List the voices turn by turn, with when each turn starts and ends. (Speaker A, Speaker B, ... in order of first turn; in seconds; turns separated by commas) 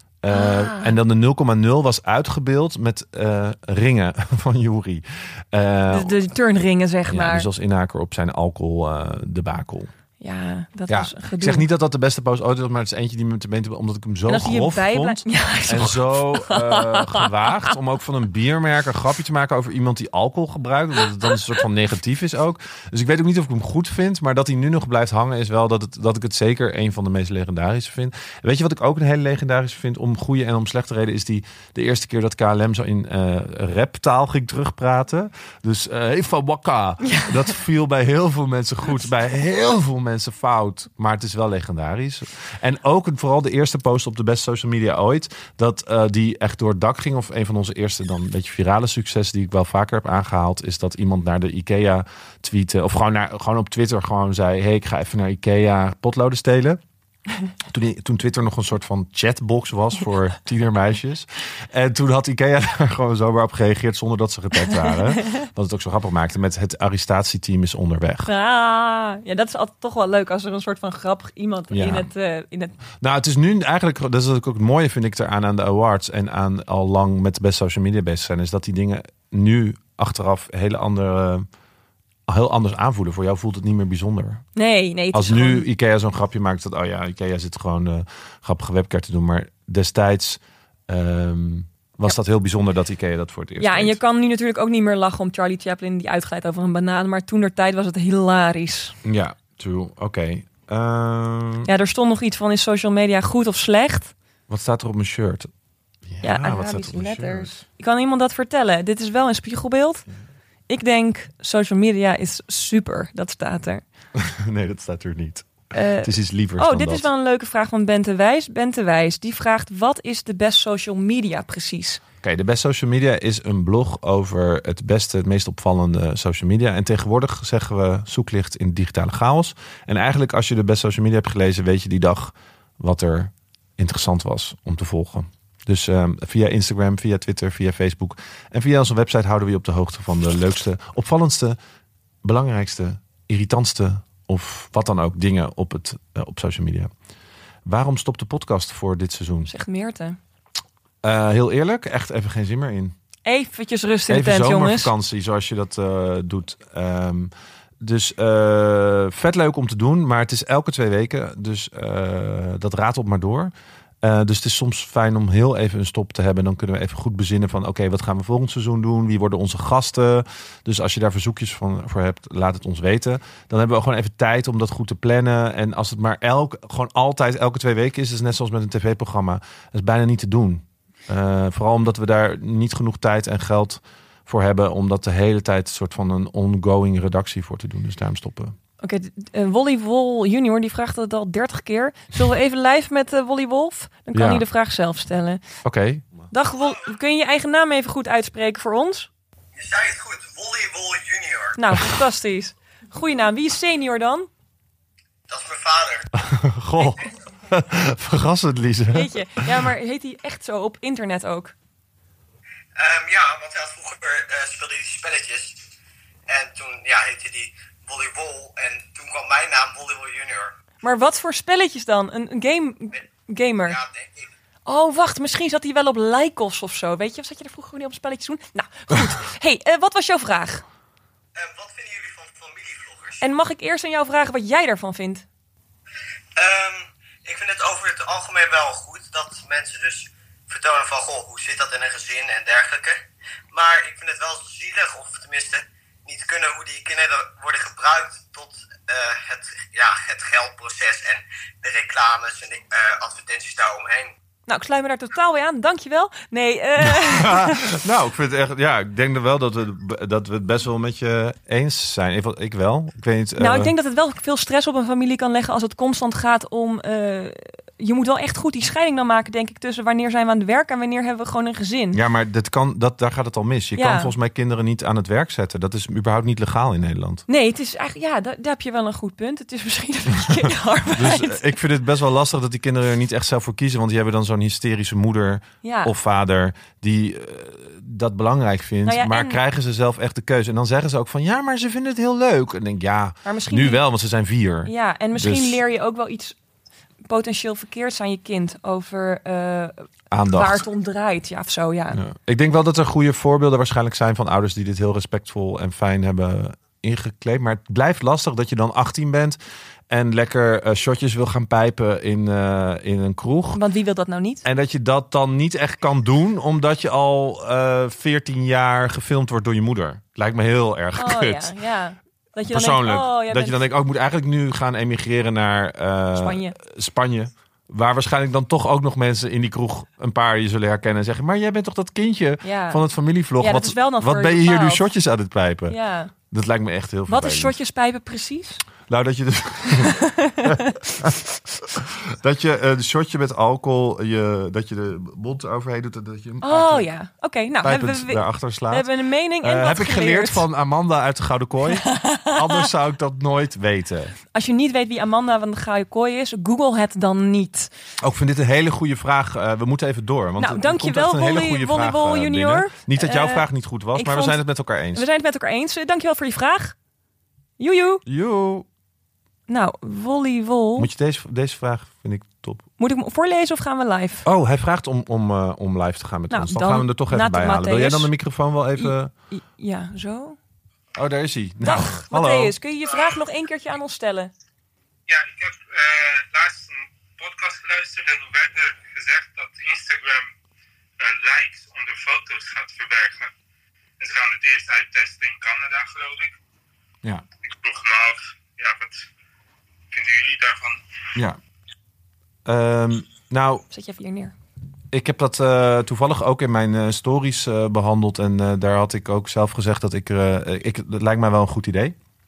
Speaker A: 0.2-6.2, Speaker B: 0.3-1.0, Speaker B: 5.9-7.5, Speaker A: 7.1-9.9, Speaker B: 10.2-11.7, Speaker A: 10.9-56.8, Speaker B: 14.3-17.3, Speaker B: 37.0-37.3, Speaker A: 57.7-68.3, Speaker B: 68.2-72.8, Speaker A: 71.7-72.1, Speaker A: 73.0-81.5, Speaker A: 82.3-84.4, Speaker B: 84.6-85.7, Speaker A: 85.1-94.0, Speaker B: 93.6-99.0, Speaker A: 99.0-101.7, Speaker B: 101.7-104.1, Speaker A: 104.5-105.5, Speaker A: 106.1-107.5, Speaker B: 106.2-110.0, Speaker B: 110.7-113.8, Speaker A: 114.2-115.5, Speaker B: 115.7-122.0, Speaker A: 116.0-117.1, Speaker A: 122.2-141.6, Speaker A: 142.2-146.9, Speaker A: 147.7-149.5, Speaker B: 149.5-150.2, Speaker A: 151.0-152.9, Speaker B: 153.2-154.9, Speaker A: 154.1-188.6, Speaker B: 188.8-195.4, Speaker A: 194.1-194.4, Speaker A: 195.6-196.1, Speaker B: 196.3-199.1, Speaker C: 199.6-201.6, Speaker B: 201.6-204.3, Speaker C: 205.3-206.1, Speaker A: 206.1-209.7, Speaker B: 208.9-211.5, Speaker C: 212.8-215.6, Speaker C: 216.3-220.5, Speaker B: 220.8-223.8, Speaker C: 223.7-224.3, Speaker B: 224.7-230.6, Speaker C: 231.4-233.2, Speaker B: 233.2-235.2, Speaker C: 236.4-243.0, Speaker C: 243.5-254.1, Speaker B: 254.5-257.7, Speaker A: 256.8-263.7, Speaker B: 263.4-272.0, Speaker A: 271.9-277.2, Speaker B: 273.8-274.1, Speaker B: 277.3-281.5, Speaker A: 280.9-295.6, Speaker B: 285.6-285.9, Speaker B: 288.9-289.4, Speaker B: 293.2-293.8, Speaker B: 294.6-296.4, Speaker B: 297.1-302.0, Speaker A: 300.1-300.6, Speaker A: 301.9-309.4, Speaker A: 309.9-313.6, Speaker B: 313.5-314.4, Speaker A: 314.4-321.5, Speaker B: 320.9-323.6, Speaker A: 322.5-335.8, Speaker B: 326.2-326.6, Speaker B: 332.4-332.8, Speaker B: 333.4-334.9, Speaker B: 335.7-336.1, Speaker A: 336.3-337.6, Speaker B: 337.1-338.6, Speaker A: 338.9-346.9, Speaker B: 339.8-340.9, Speaker B: 346.4-350.4, Speaker A: 347.6-348.9, Speaker A: 349.4-354.1, Speaker B: 351.8-352.6, Speaker B: 354.3-357.7, Speaker A: 358.0-365.1, Speaker B: 360.4-364.4, Speaker B: 364.9-366.8, Speaker B: 367.6-368.0, Speaker A: 368.1-368.7, Speaker B: 369.5-370.9, Speaker A: 370.8-372.6, Speaker B: 372.8-374.3, Speaker A: 374.2-379.1, Speaker B: 376.3-378.1, Speaker B: 378.8-380.4, Speaker A: 380.9-382.6, Speaker B: 381.6-384.3, Speaker D: 385.1-390.3, Speaker D: 391.0-393.3, Speaker D: 394.0-396.4, Speaker D: 397.5-399.1, Speaker D: 399.9-400.8, Speaker A: 402.4-403.7, Speaker B: 403.7-404.3, Speaker A: 404.9-411.9